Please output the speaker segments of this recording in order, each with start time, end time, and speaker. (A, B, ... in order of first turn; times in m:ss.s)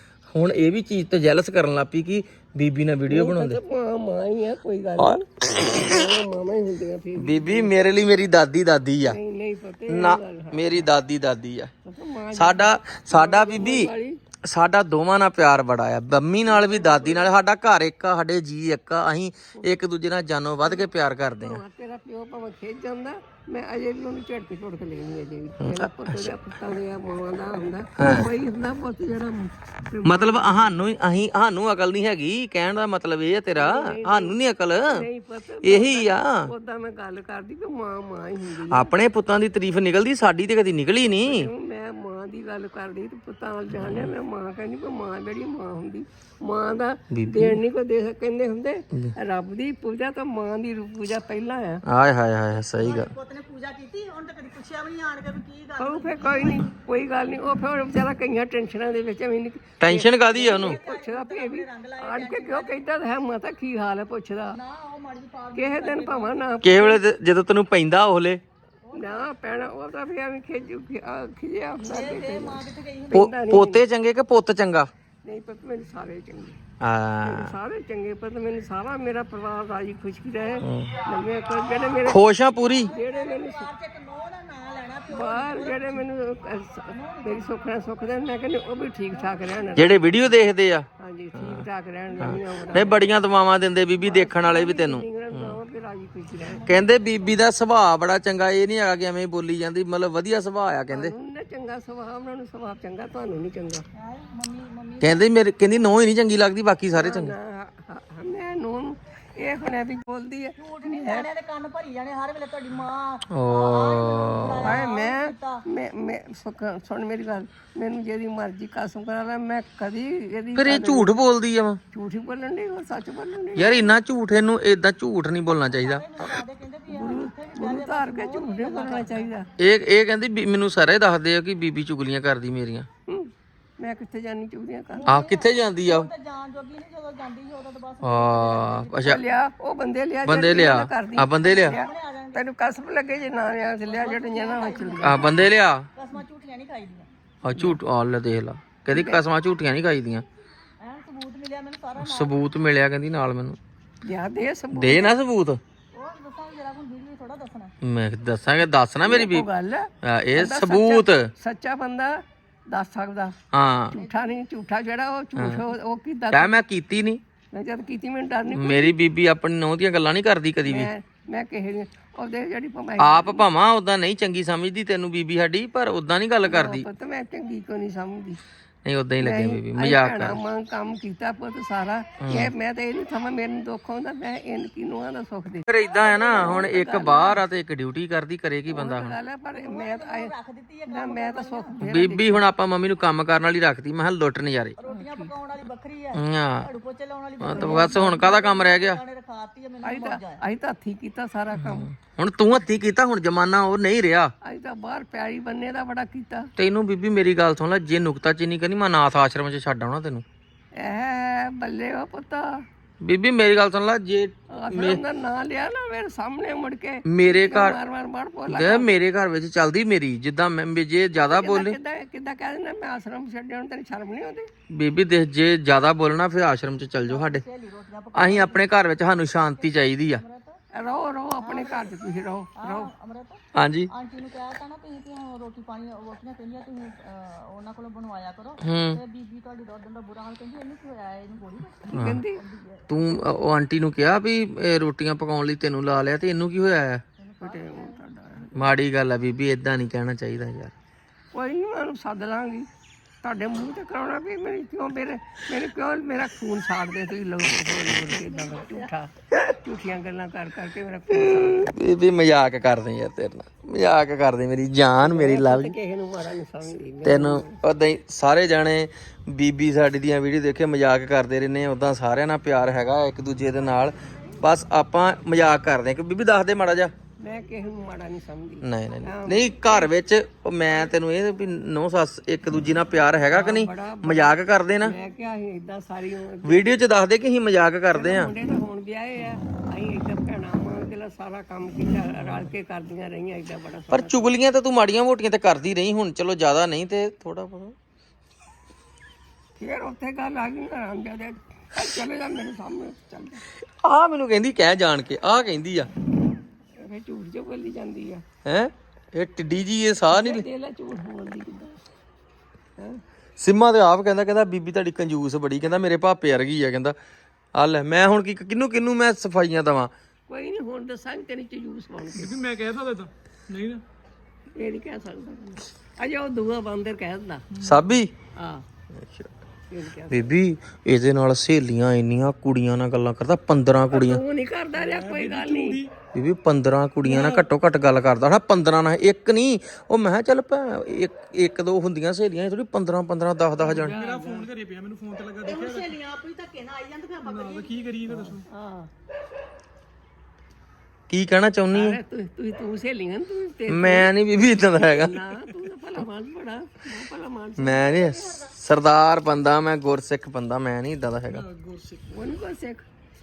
0:00.3-0:03.6 A
0:03.1-0:07.7 B
0:05.0-0:06.1 A
0:07.2-0:09.2 A
0:09.0-0:10.7 B
0:09.9-0:11.7 A
0:11.8-0:14.2 B
0:12.3-0:13.9 A
0:14.5-0:21.6 A
0:16.5-0:17.3 B
0:21.4-0:30.8 B
0:25.6-0:26.3 A
0:28.0-0:28.3 A
0:30.0-0:35.0 A
0:33.6-0:38.9 B
0:35.6-0:36.5 A
0:38.7-0:41.5 A
0:41.0-0:51.8 B
0:43.8-0:44.1 A
0:47.1-0:47.6 A
0:51.9-0:53.1 A
0:52.8-0:56.7 C
0:55.8-1:04.6 B
0:59.8-1:00.8 A
1:00.4-1:02.8 C
1:04.5-1:06.5 C
1:05.5-1:07.0 B
1:06.6-1:08.4 A
1:08.9-1:09.3 C
1:08.9-1:13.8 B
1:11.8-1:13.3 C
1:13.1-1:14.9 A
1:15.2-1:16.6 B
1:16.8-1:17.5 A
1:17.2-1:23.7 B
1:20.6-1:20.9 A
1:22.0-1:22.9 A
1:22.6-1:26.0 C
1:25.1-1:30.0 B
1:26.9-1:27.8 C
1:29.8-1:31.7 A
1:31.0-1:33.1 B
1:32.2-1:35.6 A
1:34.0-1:36.6 B
1:36.4-1:37.5 C
1:36.7-1:41.1 A
1:40.9-1:43.8 B
1:43.9-1:45.4 C
1:45.0-1:47.3 A
1:46.9-1:51.3 B
1:50.6-1:55.6 C
1:53.3-1:54.8 A
1:54.6-2:01.2 B
2:00.6-2:01.8 A
2:01.9-2:03.9 B
2:03.6-2:06.1 A
2:05.7-2:09.4 C
2:06.9-2:09.5 B
2:09.6-2:12.9 A
2:13.1-2:15.1 B
2:14.9-2:19.2 C
2:15.1-2:16.1 A
2:18.0-2:19.2 A
2:19.0-2:25.3 B
2:20.2-2:21.8 A
2:21.4-2:22.5 C
2:23.8-2:27.1 C
2:25.0-2:25.9 A
2:27.4-2:30.2 A
2:28.9-2:29.2 B
2:30.8-2:32.4 C
2:32.0-2:33.6 A
2:34.0-2:35.2 B
2:34.8-2:35.6 A
2:35.9-2:37.7 C
2:37.8-2:39.5 A
2:39.0-2:43.4 B
2:40.0-2:41.3 A
2:43.5-2:44.0 A
2:43.9-2:46.6 B
2:44.0-2:44.3 C
2:45.4-2:45.6 A
2:46.3-2:47.2 A
2:47.5-2:49.0 B
2:48.5-2:50.9 A
2:50.7-2:53.5 B
2:53.0-2:56.9 A
2:56.4-2:58.4 B
2:58.8-3:00.4 A
2:59.2-3:07.4 B
3:02.2-3:02.5 A
3:05.7-3:09.2 A
3:05.8-3:06.6 C
3:08.7-3:10.3 B
3:09.5-3:11.8 C
3:10.9-3:12.5 B
3:11.8-3:14.8 A
3:14.8-3:20.4 C
3:14.9-3:15.3 B
3:16.2-3:16.7 A
3:17.4-3:19.0 A
3:17.5-3:18.3 B
3:19.8-3:21.9 B
3:21.5-3:24.3 A
3:24.4-3:26.5 B
3:26.6-3:30.2 A
3:30.8-3:32.6 B
3:33.0-3:35.0 A
3:34.5-3:39.0 B
3:37.1-3:37.8 A
3:38.5-3:41.8 A
3:41.2-3:44.5 B
3:44.7-3:47.4 A
3:47.1-3:48.7 C
3:48.2-3:50.2 A
3:49.3-3:50.6 C
3:50.7-3:52.9 B
3:51.4-3:52.0 C
3:52.6-4:02.9 C
3:53.6-3:53.9 A
3:58.6-3:59.0 A
4:01.9-4:02.4 B
4:01.9-4:02.2 A
4:02.9-4:07.0 A
4:07.2-4:08.0 C
4:07.4-4:08.7 B
4:08.6-4:10.7 A
4:11.3-4:12.7 B
4:13.2-4:21.7 B
4:21.1-4:25.8 A
4:25.0-4:27.6 B
4:27.0-4:36.9 A
4:34.0-4:34.4 C
4:37.2-4:39.9 B
4:38.6-4:45.0 A
4:43.3-4:46.7 B
4:46.4-4:48.3 A
4:47.9-4:54.3 B
4:53.9-4:57.7 A
4:59.6-5:03.4 B
5:03.8-5:05.9 A
5:06.8-5:08.2 B
5:08.4-5:10.5 A
5:10.1-5:11.8 B
5:13.4-5:17.0 A
5:17.6-5:19.9 A
5:20.3-5:22.4 B
5:22.2-5:23.8 D
5:24.6-5:27.5 B
5:27.6-5:28.1 A
5:28.4-5:28.6 B
5:29.0-5:29.3 A
5:29.7-5:30.4 B
5:30.1-5:34.2 A
5:33.9-5:35.9 B
5:34.8-5:35.8 D
5:36.1-5:44.0 A
5:37.0-5:37.5 B
5:43.7-5:45.9 D
5:43.7-5:44.5 B
5:45.4-5:48.0 C
5:47.2-5:48.5 D
5:48.1-5:48.9 B
5:51.1-5:52.0 A
5:51.7-5:54.1 B
5:53.7-5:55.2 A
5:54.8-5:58.0 B
5:57.6-6:01.5 A
5:57.8-5:58.6 C
6:01.4-6:02.0 D
6:02.1-6:02.8 B